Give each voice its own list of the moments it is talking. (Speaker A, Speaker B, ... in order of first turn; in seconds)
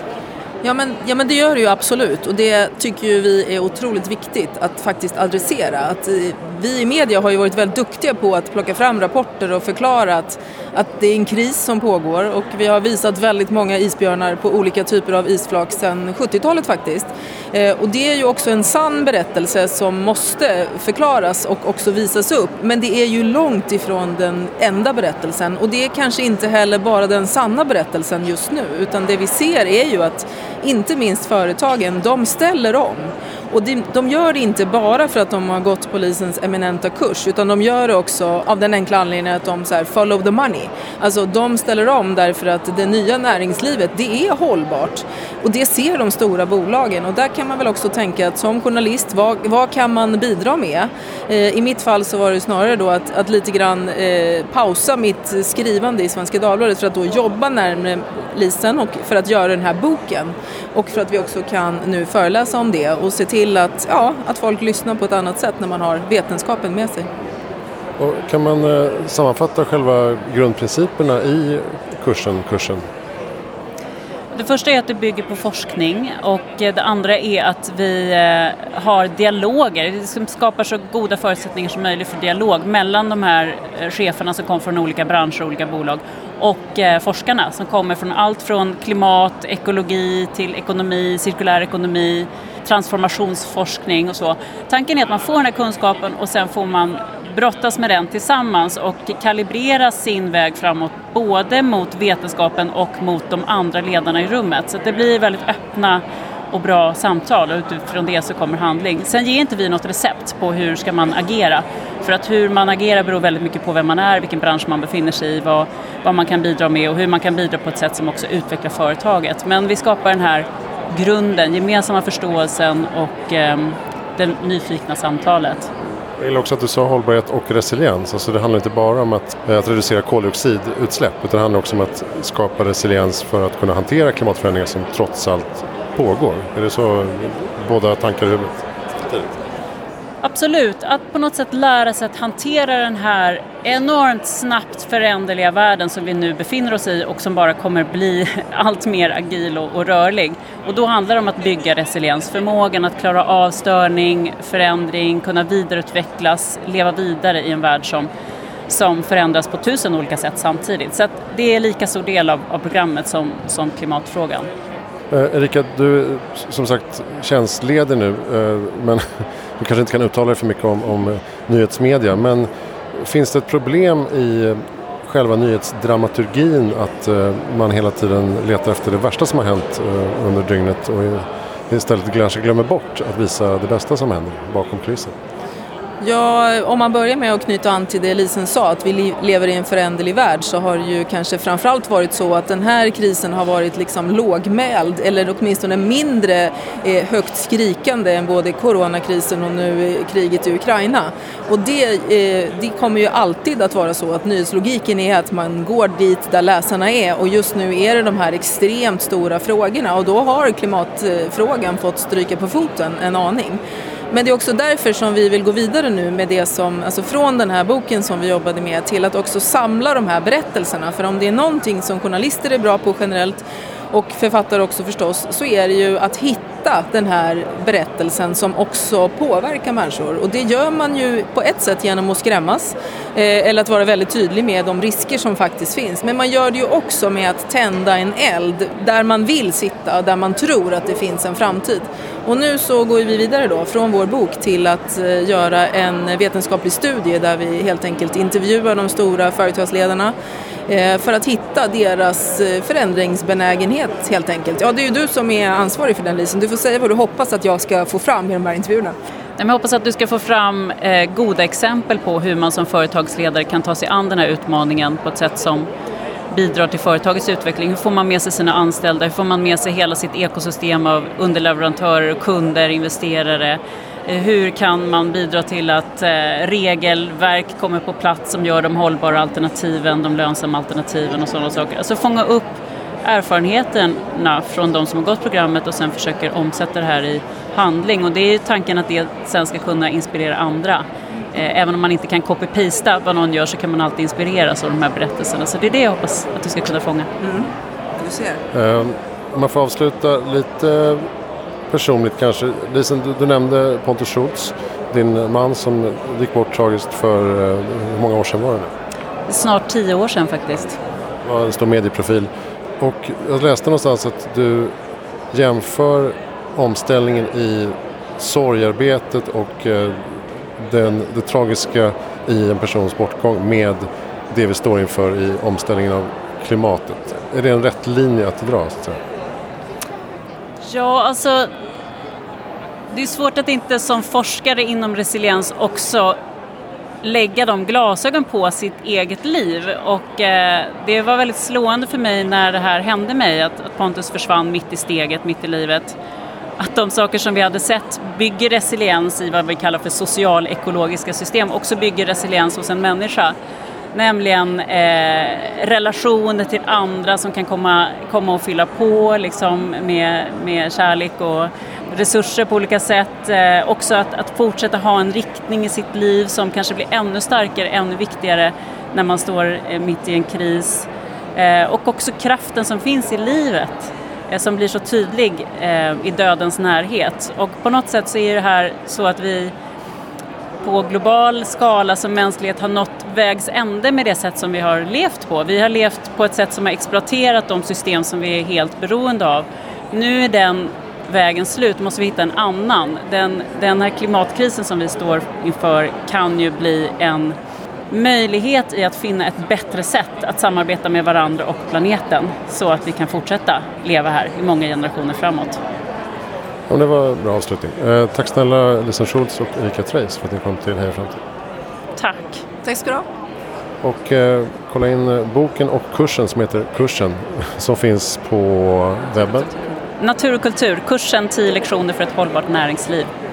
Speaker A: 0.6-67.1, 186.0-250.1, 250.7-258.9, 297.2-298.4, 412.6-413.1
Speaker B: 68.0-72.8, 126.2-139.3, 165.1-169.0, 169.6-185.1, 298.5-301.1, 301.7-308.7, 311.2-312.3, 312.8-314.7, 315.3-329.0, 406.7-411.2, 413.8-419.5
Speaker C: 74.3-125.7, 140.2-158.1, 158.7-164.5, 259.4-265.7, 266.3-297.1, 309.3-310.8, 330.6-331.5, 332.9-336.2, 337.0-346.0, 346.6-353.4, 353.9-379.5, 380.6-397.4, 397.9-405.6, 412.0-412.4, 420.0-423.1